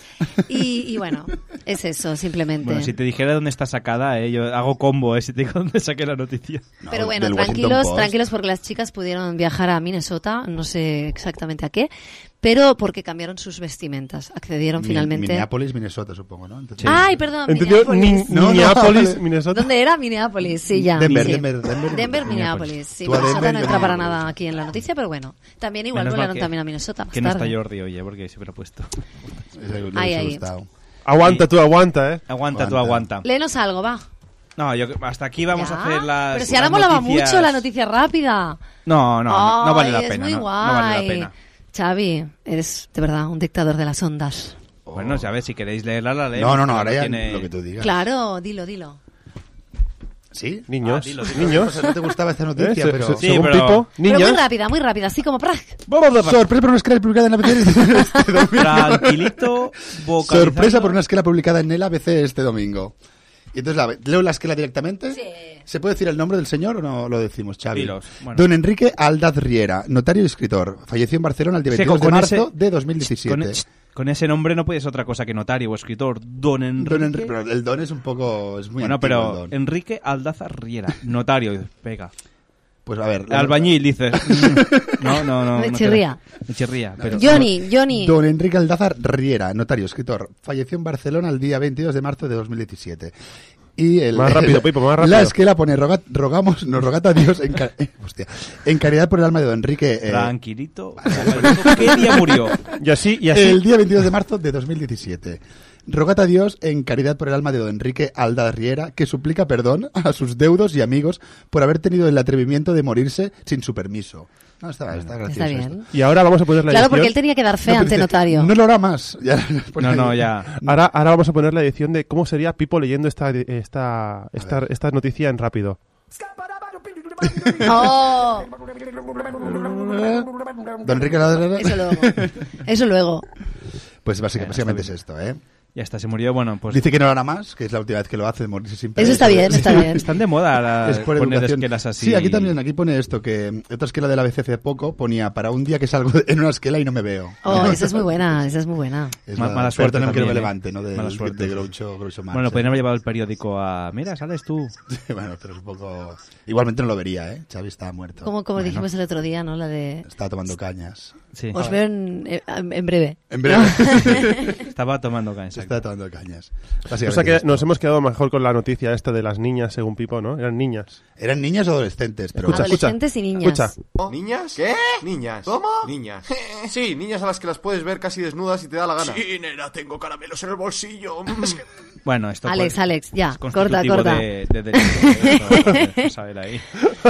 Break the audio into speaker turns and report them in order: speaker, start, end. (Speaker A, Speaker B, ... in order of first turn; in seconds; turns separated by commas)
Speaker A: 0.4-2.9, Speaker B: 2.6-6.6, Speaker C: 6.8-8.1, Speaker A: 6.9-11.9, Speaker A: 12.4-15.5, Speaker C: 14.8-17.1, Speaker A: 16.8-18.8, Speaker D: 17.4-19.7, Speaker C: 18.3-19.2, Speaker A: 19.5-27.5, Speaker C: 20.7-24.2, Speaker B: 21.0-21.4, Speaker B: 25.9-26.5, Speaker B: 27.1-28.9, Speaker C: 29.5-30.7, Speaker A: 29.9-30.4, Speaker D: 31.0-32.2, Speaker B: 31.2-31.5, Speaker B: 32.3-33.2, Speaker C: 32.5-33.1, Speaker A: 33.2-34.1, Speaker B: 34.6-37.6, Speaker A: 35.5-38.6, Speaker B: 38.9-41.3, Speaker A: 39.3-44.6, Speaker C: 44.9-45.3, Speaker B: 44.9-47.5, Speaker C: 46.3-47.9, Speaker A: 47.8-49.0, Speaker C: 50.3-53.3, Speaker D: 50.7-51.7, Speaker B: 50.8-51.7, Speaker D: 52.5-54.4, Speaker B: 53.2-53.9, Speaker A: 54.0-55.8, Speaker B: 55.9-56.4, Speaker C: 56.2-59.5, Speaker B: 58.5-61.0, Speaker C: 60.2-62.9, Speaker C: 63.5-73.6, Speaker B: 67.7-68.5, Speaker B: 71.7-77.3, Speaker C: 76.8-79.5, Speaker B: 78.8-82.1, Speaker C: 82.8-85.1, Speaker B: 83.3-87.5, Speaker A: 85.5-86.2, Speaker C: 87.0-93.1, Speaker A: 87.2-88.2, Speaker C: 93.8-100.3, Speaker D: 94.1-95.3, Speaker B: 100.0-102.6, Speaker C: 101.0-102.7, Speaker D: 102.8-103.6, Speaker C: 103.3-115.8, Speaker A: 115.3-115.9, Speaker D: 115.9-117.1, Speaker A: 116.7-118.5, Speaker C: 117.7-120.8, Speaker B: 119.8-120.5, Speaker D: 120.6-125.8, Speaker C: 127.2-127.9, Speaker A: 127.6-128.5, Speaker C: 129.3-130.3, Speaker C: 130.8-132.3, Speaker A: 131.6-133.2, Speaker C: 134.0-135.4, Speaker B: 134.4-134.9, Speaker B: 135.7-136.9, Speaker C: 136.7-140.1, Speaker A: 139.0-140.0, Speaker B: 139.0-142.5, Speaker C: 140.8-148.5, Speaker A: 147.4-149.2, Speaker C: 149.2-152.8, Speaker B: 149.3-151.7, Speaker B: 152.3-154.7, Speaker C: 154.9-158.3, Speaker A: 158.2-160.1, Speaker C: 160.0-161.8, Speaker A: 161.5-164.4, Speaker C: 163.3-164.6, Speaker B: 164.6-165.8, Speaker C: 165.5-167.7, Speaker D: 167.0-171.0, Speaker C: 171.2-172.8, Speaker A: 172.4-173.7, Speaker D: 172.4-173.7, Speaker E: 174.1-176.2, Speaker E: 176.7-179.2, Speaker B: 182.0-186.7, Speaker A: 182.4-186.0